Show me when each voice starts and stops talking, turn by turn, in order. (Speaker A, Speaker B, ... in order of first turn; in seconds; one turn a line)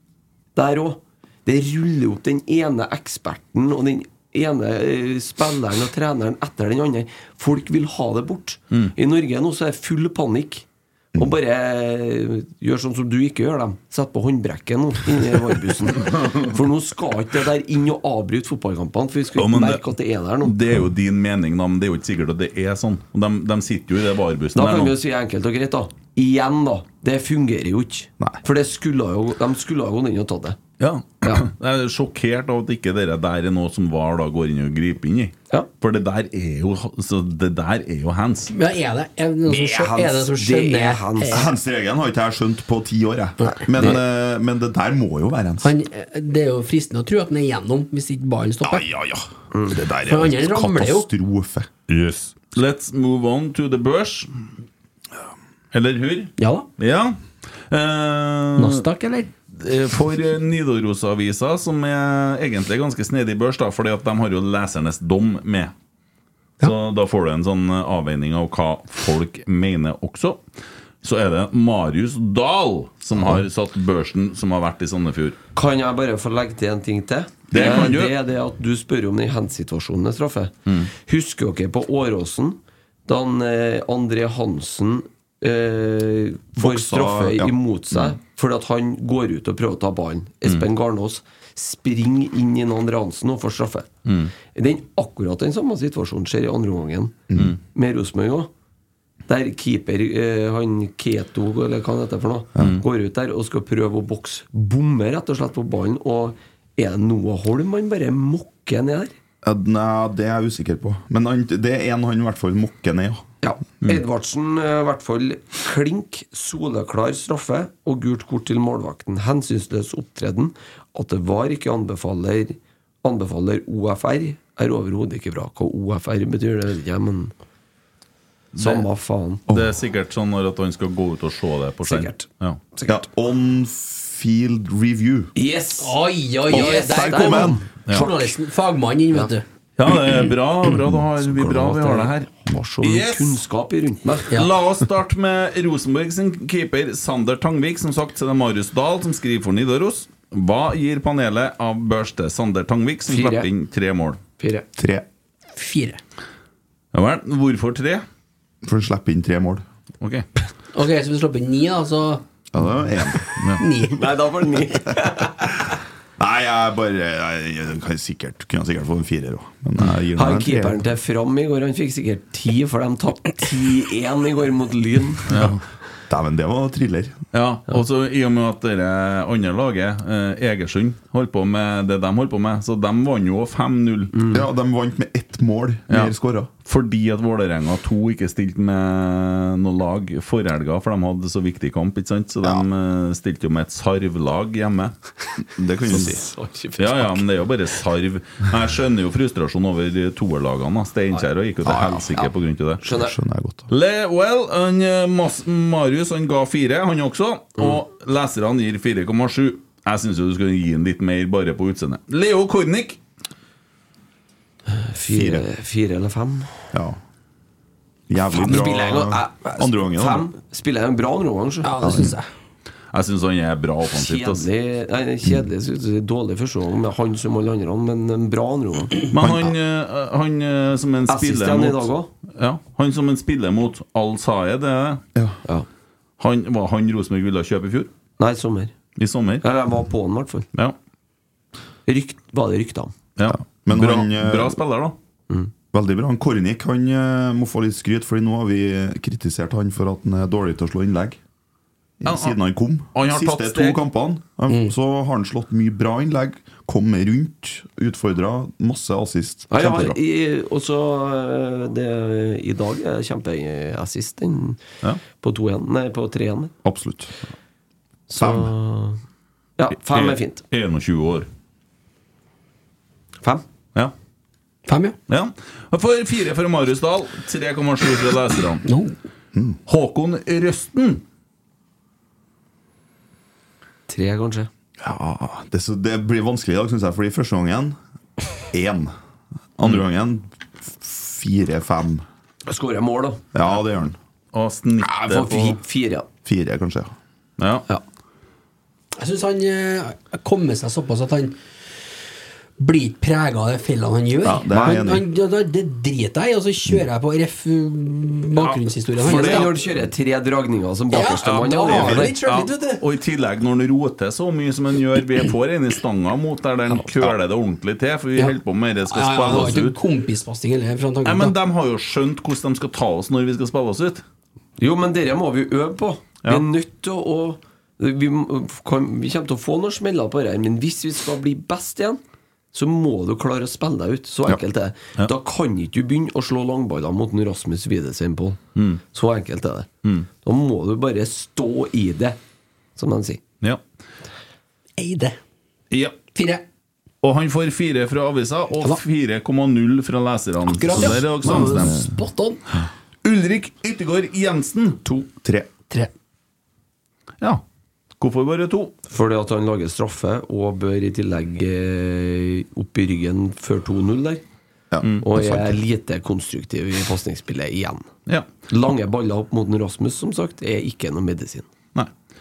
Speaker A: 0.6-20.6
Speaker B: 19.4-19.8
Speaker B: 20.4-25.0
Speaker A: 24.6-30.6
Speaker B: 30.8-38.5
Speaker C: 38.5-41.5
Speaker A: 39.5-41.5
Speaker D: 41.3-45.7
Speaker C: 43.4-44.0
Speaker C: 45.6-48.9
Speaker D: 48.6-51.7
Speaker C: 50.0-51.1
Speaker B: 51.9-54.3
Speaker B: 55.7-57.2
Speaker C: 56.4-56.7
Speaker B: 57.7-58.9
Speaker C: 58.6-59.3
Speaker B: 59.5-65.7
Speaker B: 66.6-70.4
Speaker B: 71.0-75.4
Speaker A: 75.5-93.9
Speaker B: 77.5-78.2
Speaker D: 86.6-87.6
Speaker B: 94.1-94.3
Speaker A: 94.5-98.5
Speaker D: 97.3-97.6
Speaker A: 99.3-109.2
Speaker D: 102.6-102.8
Speaker B: 102.6-102.8
Speaker D: 109.4-113.2
Speaker A: 113.4-127.3
Speaker B: 128.5-128.8
Speaker A: 128.6-129.4
Speaker B: 129.5-132.6
Speaker A: 131.8-133.0
Speaker D: 132.9-135.3
Speaker A: 135.4-136.0
Speaker C: 135.8-139.4
Speaker A: 136.5-137.6
Speaker D: 136.5-137.7
Speaker B: 139.8-142.3
Speaker A: 141.2-144.3
Speaker B: 142.8-143.4
Speaker B: 144.3-154.2
Speaker A: 153.1-153.5
Speaker A: 154.4-154.7
Speaker D: 154.8-155.1
Speaker C: 155.6-156.0
Speaker B: 156.9-158.1
Speaker D: 158.6-159.6
Speaker C: 160.7-162.2
Speaker D: 162.5-163.4
Speaker C: 163.6-164.0
Speaker A: 163.9-165.3
Speaker D: 166.2-170.8
Speaker A: 170.2-175.5
Speaker B: 175.3-175.6
Speaker D: 176.1-177.2
Speaker B: 177.3-184.1
Speaker A: 184.1-184.4
Speaker D: 184.3-186.5
Speaker B: 186.7-194.9
Speaker D: 195.5-196.2
Speaker A: 195.9-197.2
Speaker B: 196.8-202.8
Speaker A: 201.2-202.3
Speaker A: 202.8-203.2
Speaker D: 202.9-203.7
Speaker B: 203.7-213.0
Speaker A: 214.7-216.7
Speaker D: 215.1-215.5
Speaker D: 216.7-217.0
Speaker D: 218.1-220.3
Speaker A: 218.3-221.8
Speaker C: 221.6-222.3
Speaker D: 221.8-222.1
Speaker B: 222.9-224.5
Speaker A: 223.9-229.0
Speaker B: 229.1-235.0
Speaker D: 229.1-229.5
Speaker A: 231.1-232.1
Speaker B: 236.2-237.9
Speaker A: 238.2-238.7
Speaker B: 239.0-239.4
Speaker A: 239.4-240.5
Speaker A: 241.9-242.9
Speaker B: 243.2-245.0
Speaker D: 243.3-244.6
Speaker D: 245.7-251.2
Speaker D: 252.0-260.0
Speaker B: 252.1-252.4
Speaker B: 252.9-253.8
Speaker C: 254.5-254.7
Speaker A: 259.5-264.6
Speaker A: 265.2-266.5
Speaker D: 266.6-267.2
Speaker A: 268.1-269.0
Speaker D: 268.1-268.5
Speaker A: 269.6-270.4
Speaker B: 269.9-271.3
Speaker C: 274.7-275.0
Speaker B: 275.1-278.6
Speaker C: 278.6-279.0
Speaker D: 279.3-279.6
Speaker B: 279.7-281.0
Speaker A: 283.9-284.5
Speaker D: 284.8-287.8
Speaker D: 288.5-288.9
Speaker D: 289.6-292.1
Speaker A: 292.5-293.2
Speaker D: 293.3-294.0
Speaker B: 294.3-295.6
Speaker A: 294.8-296.1
Speaker D: 296.2-296.9
Speaker B: 297.4-297.6
Speaker C: 299.0-301.4
Speaker C: 302.6-309.5
Speaker D: 304.2-305.1
Speaker A: 304.6-304.8
Speaker B: 308.4-309.6
Speaker A: 309.0-312.1
Speaker C: 310.9-312.8
Speaker B: 311.2-319.8
Speaker D: 311.7-312.0
Speaker C: 318.9-321.4
Speaker B: 321.0-324.0
Speaker A: 324.6-332.0
Speaker A: 332.5-339.7
Speaker B: 338.6-338.8
Speaker A: 340.2-342.2
Speaker A: 342.8-343.2
Speaker C: 344.8-345.2
Speaker C: 346.1-346.4
Speaker B: 347.0-351.8
Speaker C: 350.5-352.4
Speaker D: 351.4-351.9
Speaker B: 353.0-354.8
Speaker D: 355.2-355.5
Speaker B: 358.0-358.8
Speaker A: 358.9-364.2
Speaker D: 364.7-365.6
Speaker A: 365.0-367.9
Speaker A: 368.5-371.5